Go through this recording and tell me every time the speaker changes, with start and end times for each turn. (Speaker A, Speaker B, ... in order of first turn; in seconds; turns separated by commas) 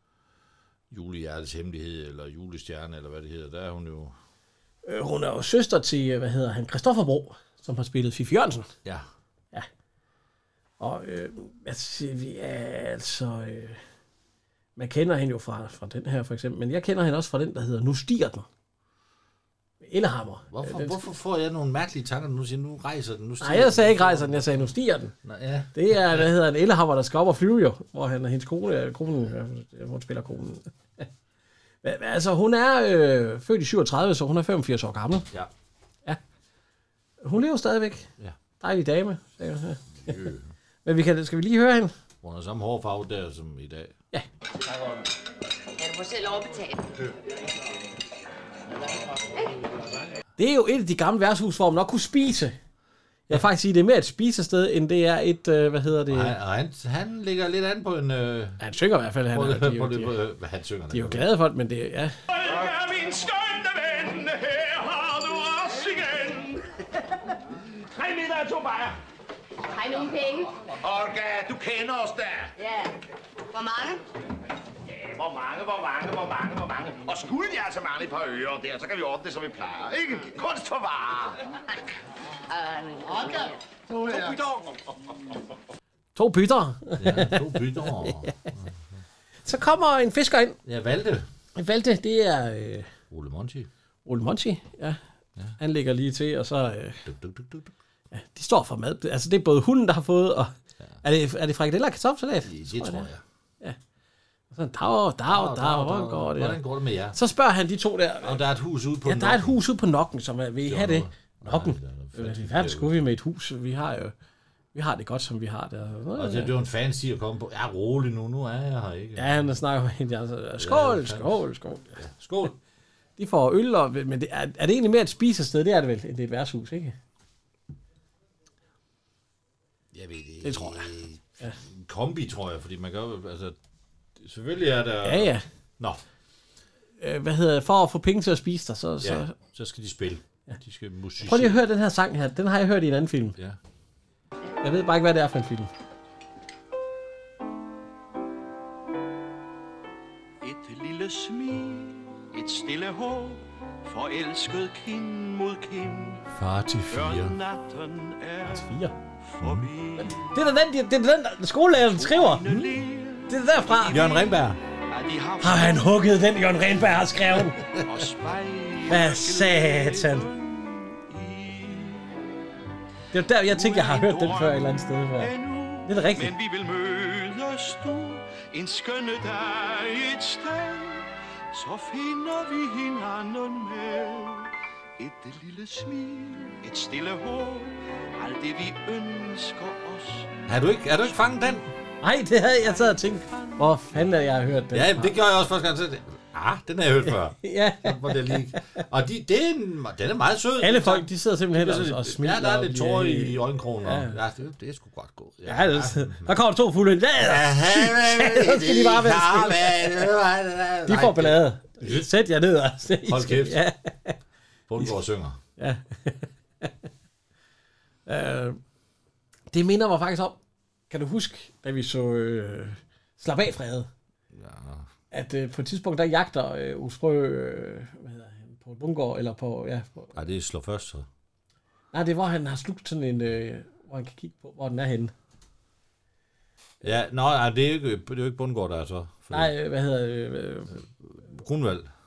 Speaker A: 0.9-4.1, Speaker B: 4.8-8.7, Speaker B: 10.8-13.8, Speaker B: 14.8-18.4, Speaker B: 19.8-21.0, Speaker A: 20.5-24.7, Speaker B: 23.4-25.1, Speaker A: 25.2-26.2, Speaker B: 25.7-31.1, Speaker B: 31.8-35.3, Speaker B: 37.2-38.1, Speaker B: 38.6-40.2, Speaker A: 40.0-40.5, Speaker B: 40.8-41.9, Speaker A: 42.2-43.9, Speaker C: 45.8-46.7, Speaker B: 50.4-52.6, Speaker B: 53.3-56.3, Speaker A: 56.1-58.6, Speaker B: 58.6-60.1, Speaker A: 59.3-61.2, Speaker B: 60.9-62.1, Speaker D: 62.4-64.0, Speaker E: 62.5-66.6, Speaker E: 67.9-69.0, Speaker C: 69.7-70.5, Speaker E: 70.8-72.5, Speaker C: 72.6-72.9, Speaker C: 73.5-74.0, Speaker E: 74.9-81.4, Speaker C: 82.5-83.5, Speaker E: 83.1-84.4, Speaker B: 86.1-88.3, Speaker A: 87.0-89.0, Speaker B: 89.4-90.6, Speaker A: 90.6-91.3, Speaker B: 91.5-92.9, Speaker A: 93.1-93.7, Speaker B: 94.0-95.0, Speaker B: 95.6-97.0, Speaker A: 97.0-97.7, Speaker B: 98.1-100.5, Speaker B: 101.0-103.1, Speaker A: 102.4-103.2, Speaker B: 104.5-106.6, Speaker A: 105.3-107.2, Speaker B: 107.1-108.4, Speaker A: 108.2-109.6, Speaker B: 109.0-114.1, Speaker A: 110.7-113.0, Speaker B: 114.7-116.5, Speaker A: 116.2-119.4, Speaker B: 119.2-122.0, Speaker A: 120.6-121.4, Speaker A: 122.0-122.5, Speaker B: 123.2-126.9, Speaker A: 129.9-133.6, Speaker B: 130.4-130.9, Speaker A: 134.2-136.0, Speaker B: 135.0-135.4, Speaker B: 137.0-139.3, Speaker A: 139.0-141.6, Speaker B: 141.2-143.4, Speaker B: 144.6-145.7, Speaker D: 150.4-156.2, Speaker A: 156.3-157.4, Speaker D: 156.9-160.3, Speaker B: 158.4-158.9, Speaker A: 159.4-159.7, Speaker B: 160.0-162.4, Speaker D: 161.9-164.2, Speaker A: 162.4-162.7, Speaker B: 163.3-164.0, Speaker A: 163.9-164.6, Speaker D: 164.9-166.0, Speaker B: 165.4-167.6, Speaker D: 167.8-172.2, Speaker B: 168.9-170.2, Speaker B: 173.1-175.3, Speaker D: 173.5-190.3, Speaker B: 175.8-176.3, Speaker A: 190.5-191.7, Speaker B: 192.0-195.2, Speaker D: 192.6-193.8, Speaker A: 194.7-206.3, Speaker B: 197.4-198.8, Speaker B: 200.6-204.2, Speaker B: 205.4-210.1, Speaker A: 207.2-212.1, Speaker B: 210.9-214.2, Speaker A: 213.1-213.6, Speaker A: 214.7-215.4, Speaker B: 215.6-216.7, Speaker B: 218.1-218.6, Speaker B: 219.5-220.4, Speaker B: 220.9-223.9, Speaker A: 224.3-224.9, Speaker B: 225.1-230.1, Speaker A: 230.1-231.1, Speaker B: 231.9-235.1, Speaker A: 236.8-239.5, Speaker B: 239.3-240.8, Speaker A: 241.1-241.9